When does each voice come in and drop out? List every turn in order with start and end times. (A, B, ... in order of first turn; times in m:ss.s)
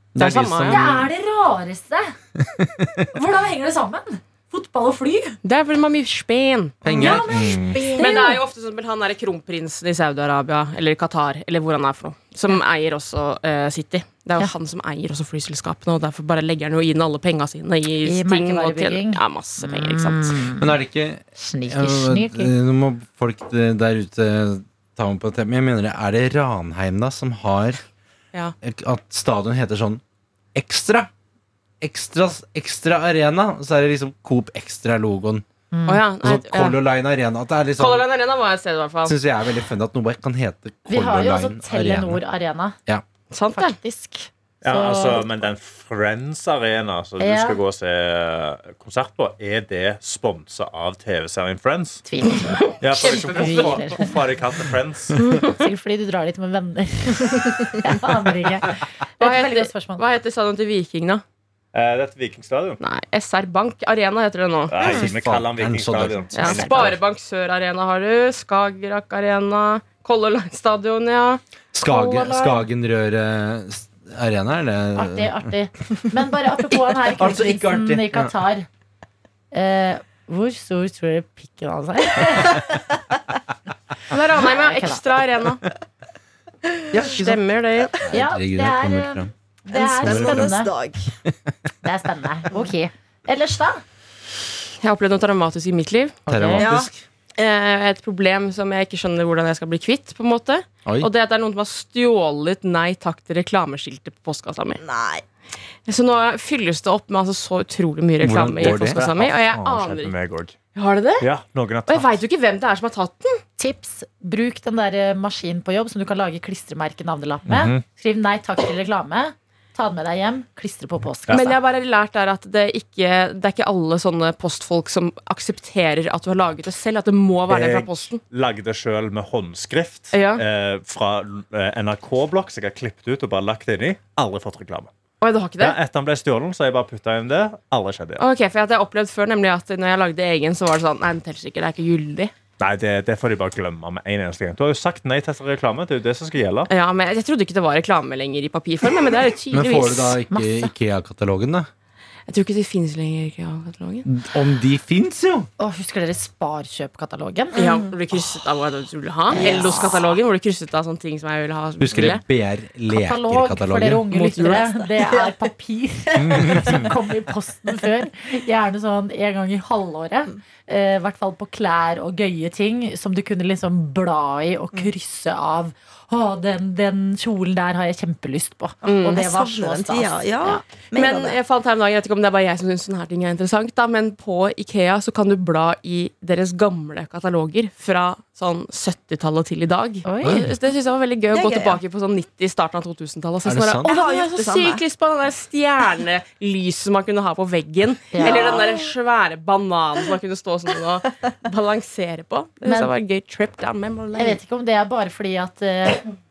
0:00.2-0:01.0 A
0:00.2-0:00.9 B
0:00.6-0:02.2 C
0:02.4-0:03.1 A
0:03.1-0:05.4 C
0:05.4-0:07.2 B
0:06.8-0:07.7 A
0:06.9-0:08.4 C
0:07.3-0:07.8 D
0:07.7-0:08.2 E
0:07.7-0:20.4 B
0:18.0-0:20.7 C
0:20.6-0:27.8 A
0:21.4-0:22.5 C
0:28.6-0:30.0 A
0:30.5-0:31.1 A
0:31.8-0:35.4 A
0:35.7-0:36.0 C
0:35.9-0:36.8 B
0:36.2-0:38.1 A
0:37.8-0:39.2 B
0:39.0-0:42.2 A
0:40.9-0:42.8 C
0:43.3-0:43.8 B
0:43.6-0:45.5 C
0:44.6-0:52.0 D
0:47.2-0:47.6 C
0:52.1-0:54.1 C
0:52.8-0:55.4 D
0:53.0-0:54.1 B
0:55.2-0:55.6 B
0:55.4-1:00.0 C
0:59.2-1:01.2 B
1:01.7-1:02.8 D
1:02.8-1:04.9 B
1:04.7-1:06.9 D
1:04.8-1:07.0 A
1:06.3-1:11.4 B
1:11.7-1:15.4 A
1:11.9-1:12.7 C
1:15.0-1:18.7 C
1:17.2-1:18.3 A
1:19.5-1:22.7 C
1:24.1-1:25.6 B
1:24.4-1:25.0 C
1:26.9-1:29.3 A
1:27.1-1:28.0 B
1:28.1-1:30.7 C
1:29.7-1:31.0 E
1:30.0-1:30.5 A
1:31.3-1:31.5 A
1:31.8-1:33.8 C
1:34.8-1:36.2 B
1:36.3-1:37.0 A
1:36.3-1:36.7 C
1:36.6-1:36.9 E
1:37.4-1:44.8 B
1:44.8-1:45.2 E
1:45.9-1:50.1 B
1:48.2-1:49.0 A
1:48.6-1:50.6 D
1:50.8-1:51.3 B
1:51.2-1:52.2 D
1:51.9-1:53.4 B
1:53.6-2:01.6 C
1:57.5-1:57.8 D
2:01.3-2:08.2 B
2:07.5-2:14.9 D
2:10.1-2:10.4 B
2:15.2-2:15.8 B
2:15.6-2:18.2 D
2:18.2-2:22.3 B
2:22.6-2:26.7 D
2:26.7-2:30.2 B
2:29.5-2:31.7 A
2:30.3-2:30.7 C
2:32.3-2:34.1 B
2:34.0-2:35.5 A
2:35.6-2:37.6 C
2:37.6-2:37.9 E
2:37.6-2:42.2 B
2:39.3-2:40.0 E
2:39.4-2:39.9 C
2:41.8-2:44.0 A
2:42.9-3:00.6 C
2:44.1-2:44.7 B
2:44.4-2:45.3 E
2:46.2-2:46.8 D
2:58.8-3:01.4 E
2:58.8-2:59.2 B
3:00.9-3:24.4 B
3:10.0-3:10.4 C
3:10.2-3:10.5 A
3:11.3-3:11.8 E
3:13.4-3:13.9 A
3:13.8-3:14.8 E
3:18.1-3:18.6 C
3:18.2-3:18.9 E
3:22.6-3:22.9 C
3:24.2-3:26.1 C